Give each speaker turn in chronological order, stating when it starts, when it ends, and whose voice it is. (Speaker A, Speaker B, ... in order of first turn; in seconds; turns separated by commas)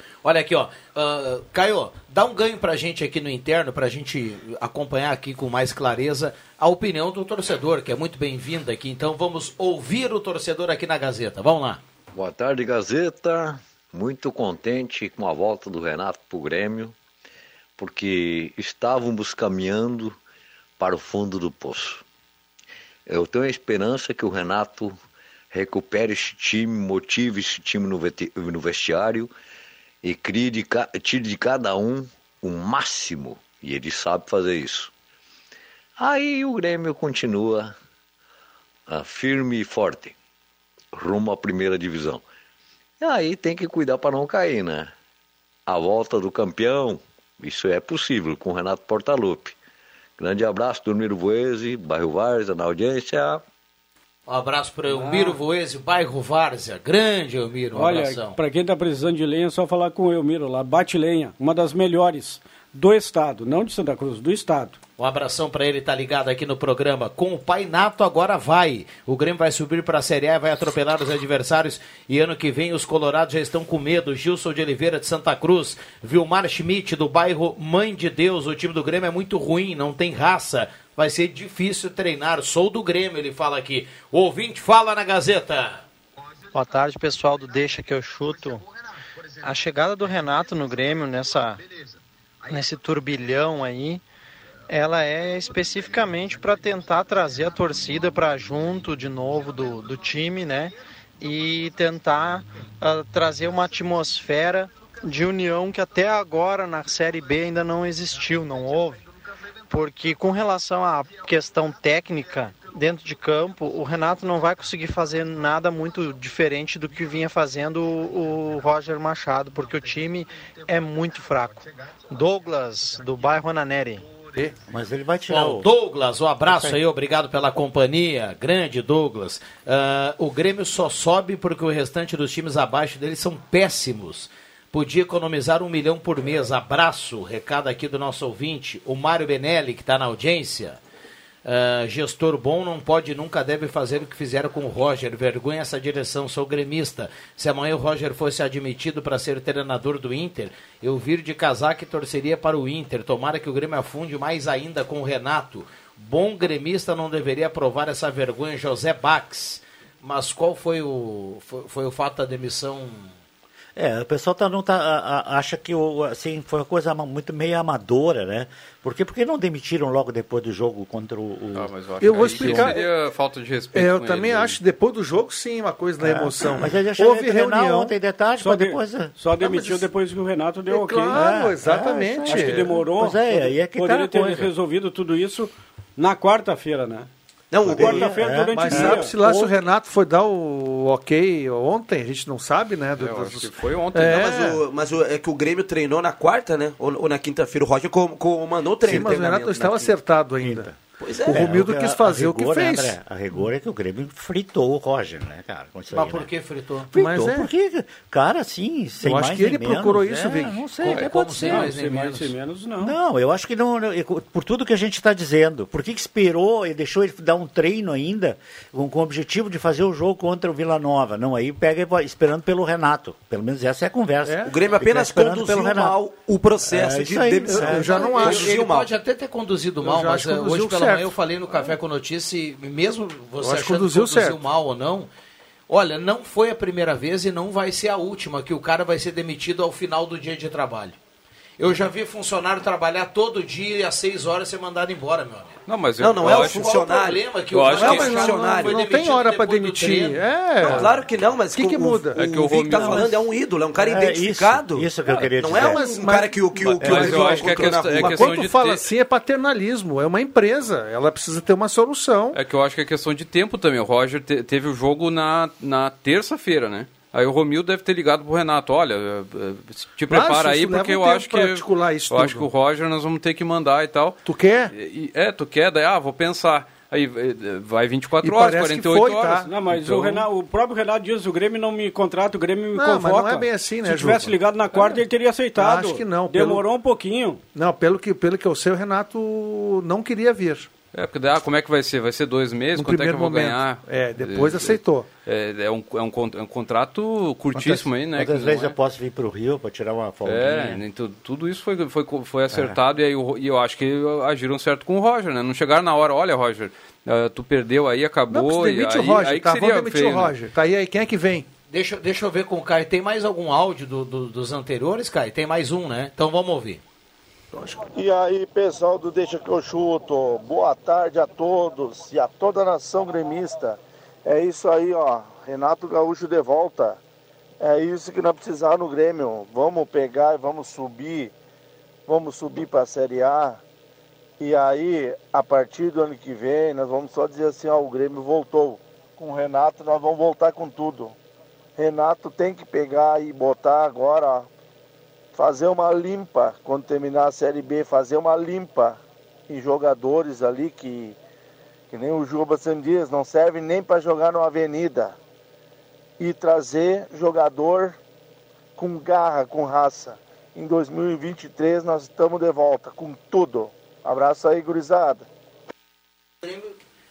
Speaker A: 0.2-11.8, Speaker B: 12.1-16.9, Speaker B: 17.8-20.2, Speaker B: 20.8-22.0, Speaker B: 23.1-25.0, Speaker B: 25.5-29.3, Speaker B: 30.0-34.9, Speaker B: 36.0-37.7, Speaker B: 38.9-40.1, Speaker B: 40.9-42.2, Speaker B: 43.0-44.9, Speaker B: 45.6-49.5, Speaker B: 50.2-53.4, Speaker A: 54.3-58.4, Speaker C: 54.9-55.4, Speaker C: 57.7-64.8, Speaker A: 65.0-85.8, Speaker D: 86.5-88.6, Speaker D: 89.4-91.6, Speaker D: 92.5-94.0, Speaker D: 94.7-109.0, Speaker D: 109.7-124.0, Speaker E: 124.7-125.7, Speaker A: 125.3-140.8, Speaker E: 126.5-126.8, Speaker A: 141.4-163.1, Speaker E: 163.8-172.8, Speaker F: 171.5-174.6, Speaker G: 172.0-172.9, Speaker G: 173.7-177.9, Speaker E: 176.0-179.1, Speaker C: 178.4-181.3, Speaker G: 179.4-179.8, Speaker G: 180.7-182.8, Speaker E: 181.1-184.5, Speaker C: 182.2-187.1, Speaker H: 187.5-188.1, Speaker E: 187.7-189.5, Speaker C: 187.7-189.2, Speaker G: 187.8-194.6, Speaker F: 193.0-194.3, Speaker H: 194.1-199.9, Speaker G: 198.8-200.7, Speaker E: 200.4-206.3, Speaker H: 201.0-201.6, Speaker G: 201.2-203.0, Speaker A: 205.9-206.9, Speaker E: 206.9-211.7, Speaker G: 206.9-207.5, Speaker G: 209.0-210.7, Speaker A: 210.8-212.3, Speaker C: 211.3-212.9, Speaker E: 212.8-226.0, Speaker G: 224.2-224.5, Speaker H: 224.4-228.9, Speaker E: 226.6-228.2, Speaker G: 227.5-228.6, Speaker A: 228.0-235.1, Speaker G: 229.8-231.2, Speaker G: 233.4-234.5, Speaker A: 235.7-241.0, Speaker A: 241.6-245.6, Speaker F: 245.7-246.7, Speaker H: 246.0-248.8, Speaker A: 246.2-250.2, Speaker F: 247.5-248.2, Speaker G: 247.7-251.0, Speaker H: 250.6-258.6, Speaker G: 251.5-253.1, Speaker F: 252.1-253.1, Speaker E: 252.7-255.8, Speaker G: 255.5-262.4, Speaker F: 256.6-258.8, Speaker E: 256.9-257.3, Speaker F: 262.3-274.2, Speaker G: 270.1-272.5, Speaker G: 274.2-274.7, Speaker F: 274.7-280.2, Speaker G: 278.2-279.5, Speaker C: 279.4-287.4, Speaker G: 282.7-285.0, Speaker G: 285.6-286.6, Speaker G: 287.5-290.7, Speaker F: 290.9-298.8, Speaker G: 292.7-295.1, Speaker E: 297.5-300.8, Speaker F: 300.2-310.3, Speaker E: 302.5-302.8, Speaker G: 308.3-311.5, Speaker A: 311.7-316.8, Speaker G: 317.5-317.8, Speaker I: 317.9-327.0, Speaker I: 327.6-331.3, Speaker I: 332.1-333.6, Speaker I: 334.4-341.1, Speaker I: 341.8-344.5, Speaker I: 345.3-351.2, Speaker I: 351.9-355.2, Speaker I: 356.2-358.0, Speaker I: 358.8-365.2